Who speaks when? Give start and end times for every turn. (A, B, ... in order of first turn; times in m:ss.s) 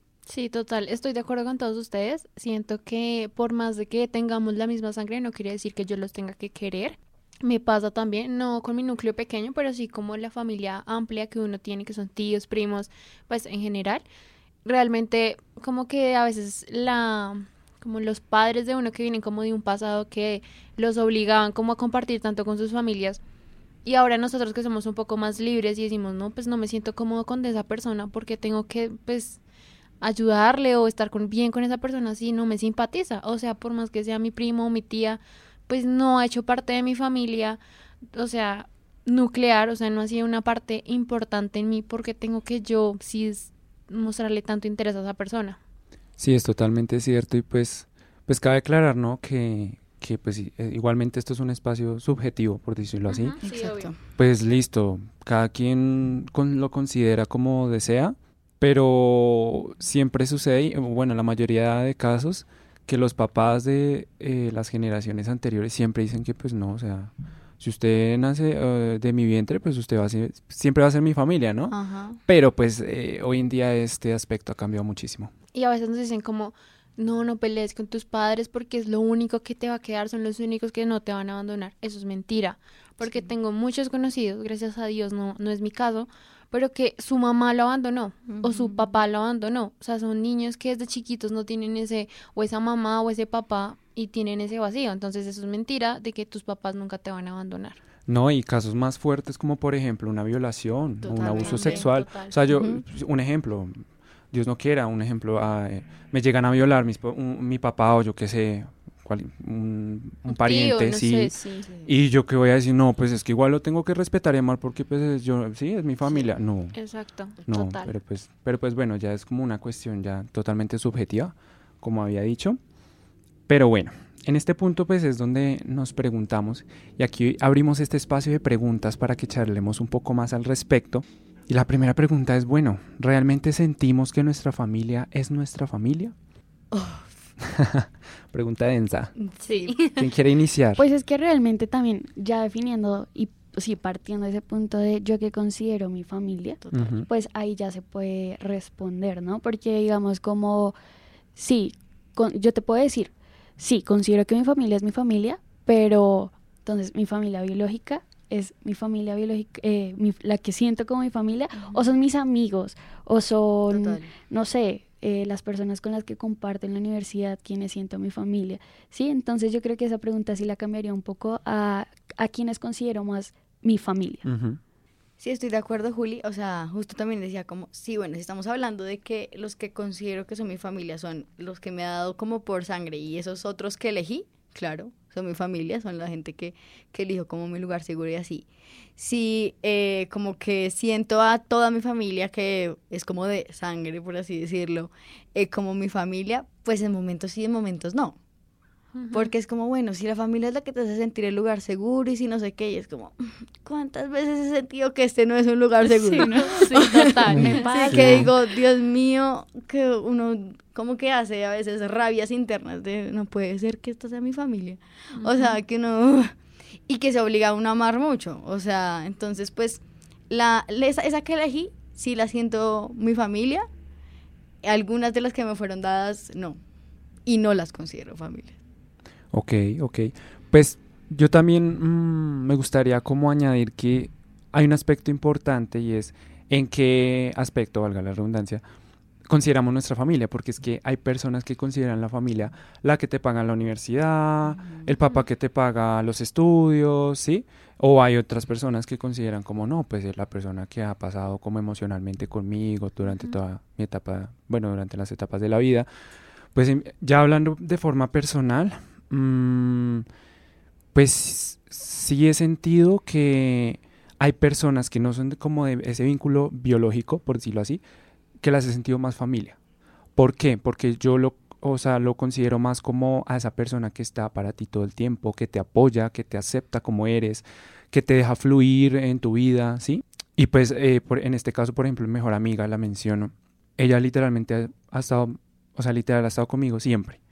0:00.3-0:14.0 A
0:14.6-0:23.2 A
0:23.8-0:29.4 A
0:30.0-0:37.6 A
0:38.1-0:45.6 A
0:46.2-0:53.4 B
0:53.1-0:53.9 A
0:53.4-0:54.0 C
0:54.2-1:11.8 B
1:11.7-1:12.2 C
1:12.3-1:15.3 B
1:15.5-1:37.8 A
1:23.0-1:23.3 C
1:28.3-1:29.0 C
1:38.1-1:56.8 B
1:41.0-1:41.9 C
1:41.4-1:42.4 A
1:42.5-1:42.8 C
1:50.3-1:51.7 A
1:56.7-1:58.0 A
1:57.5-2:02.6 B
2:03.5-2:16.2 B
2:16.7-2:17.1 C
2:17.4-2:19.1 B
2:19.2-2:19.9 C
2:19.4-2:20.0 A
2:20.0-2:20.8 B
2:20.8-2:30.8 D
2:26.6-2:27.0 C
2:26.7-2:27.1 B
2:31.4-2:54.3 D
2:41.6-2:41.8 C
2:43.7-2:44.1 C
2:54.3-2:54.6 B
2:55.2-3:18.2 C
3:19.0-3:19.3 A
3:19.1-3:36.4 C
3:26.0-3:28.3 A
3:26.1-3:26.6 D
3:27.3-3:28.3 B
3:35.2-3:35.6 A
3:36.9-3:43.7 C
3:44.6-3:46.6 C
3:47.3-3:48.6 C
3:49.3-3:58.6 B
3:59.3-4:15.9 B
4:04.6-4:04.9 C
4:16.5-4:20.0 B
4:20.9-4:27.8 B
4:28.4-4:29.6 B
4:30.2-4:47.2 B